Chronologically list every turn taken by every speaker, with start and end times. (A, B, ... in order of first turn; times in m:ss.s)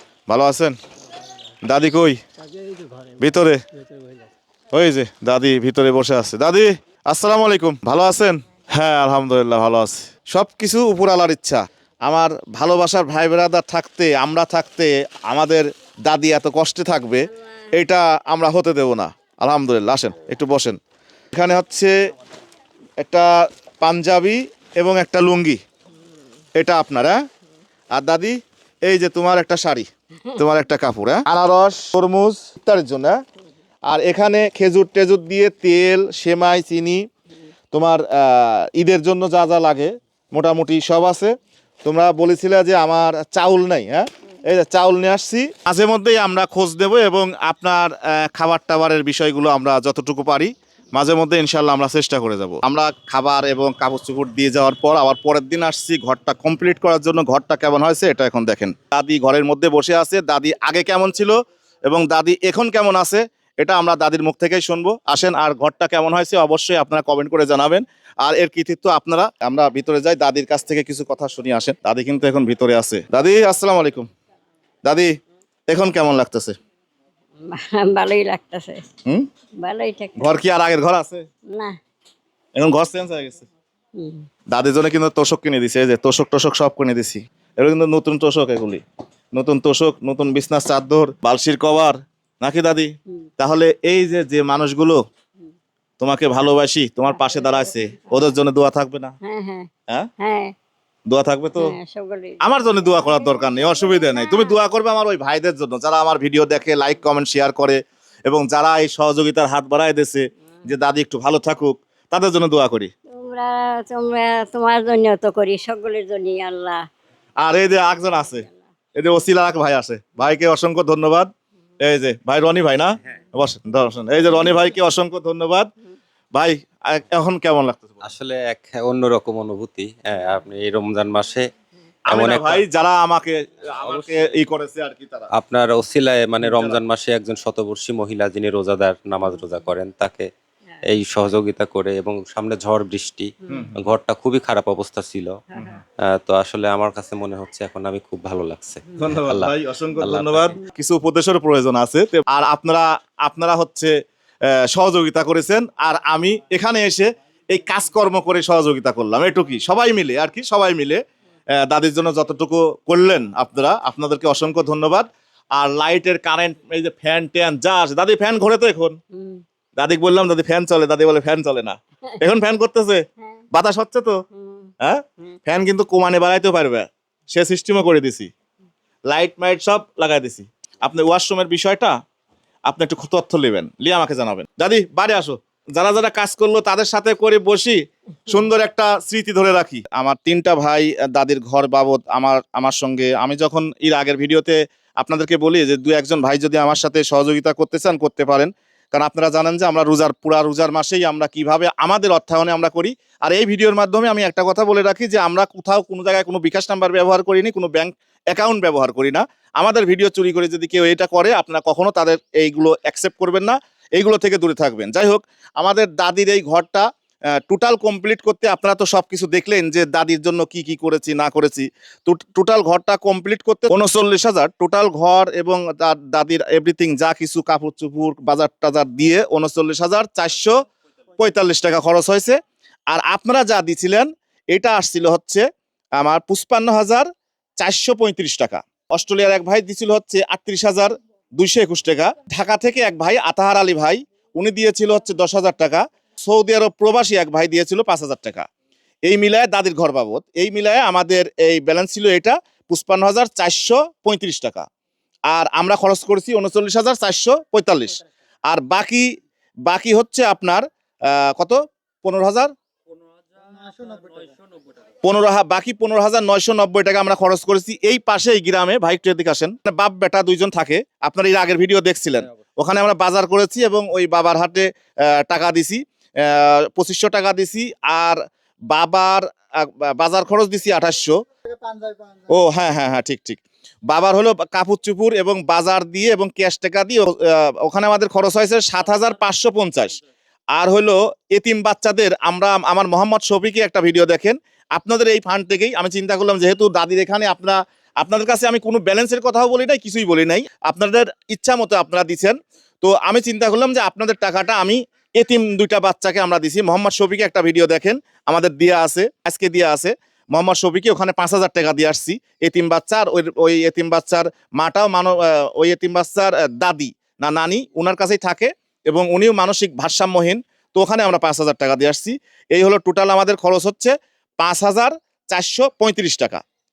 0:00.3-0:00.8 A
0:01.6-0:02.2 A
0:03.2-0:03.6 A
0:04.7-0:20.8 A
0:21.3-0:21.9 A
0:23.0-0:25.6 A
0:26.6-0:27.2 A
0:27.9-0:33.2 A
0:33.8-0:37.0 A
0:37.7-0:41.3 A
0:41.8-1:14.1 A
1:14.8-1:15.1 A
1:15.7-1:16.5 A
1:17.5-1:18.9 B
1:19.6-1:20.3 B
1:20.2-1:21.2 A
1:21.5-1:21.8 B
1:22.6-1:23.5 A
1:24.0-1:24.3 B
1:24.5-1:28.8 A
1:29.3-1:35.0 A
1:36.0-1:39.1 A
1:39.2-1:40.5 B
1:41.1-1:41.7 A
1:41.6-1:44.6 B
1:42.4-1:52.9 A
1:53.1-1:56.8 B
1:57.4-1:58.4 A
1:58.1-1:58.6 B
1:59.0-2:01.3 A
2:01.8-2:05.7 A
2:06.3-2:08.0 A
2:08.0-2:11.4 C
2:12.1-2:15.3 A
2:12.1-2:12.6 C
2:13.9-2:14.2 C
2:15.3-2:20.3 C
2:16.4-2:16.8 A
2:20.9-2:25.4 C
2:23.5-2:23.8 A
2:25.5-2:25.8 B
2:25.5-2:25.8 A
2:26.0-2:30.6 C
2:29.0-2:33.9 A
2:34.5-2:41.0 A
2:41.6-2:49.0 A
2:49.1-2:49.4 B
2:49.8-2:54.2 A
2:54.3-2:54.7 B
2:54.8-2:58.3 A
2:59.1-3:01.9 A
3:02.6-3:50.6 A
3:51.2-3:52.4 A
3:52.9-3:55.4 A
3:56.0-3:57.1 A
3:57.6-4:08.5 A
4:09.0-4:14.7 A
4:15.3-4:19.1 A
4:19.7-4:22.5 A
4:25.0-4:41.2 A
4:42.3-4:50.0 A
4:50.5-5:26.4 A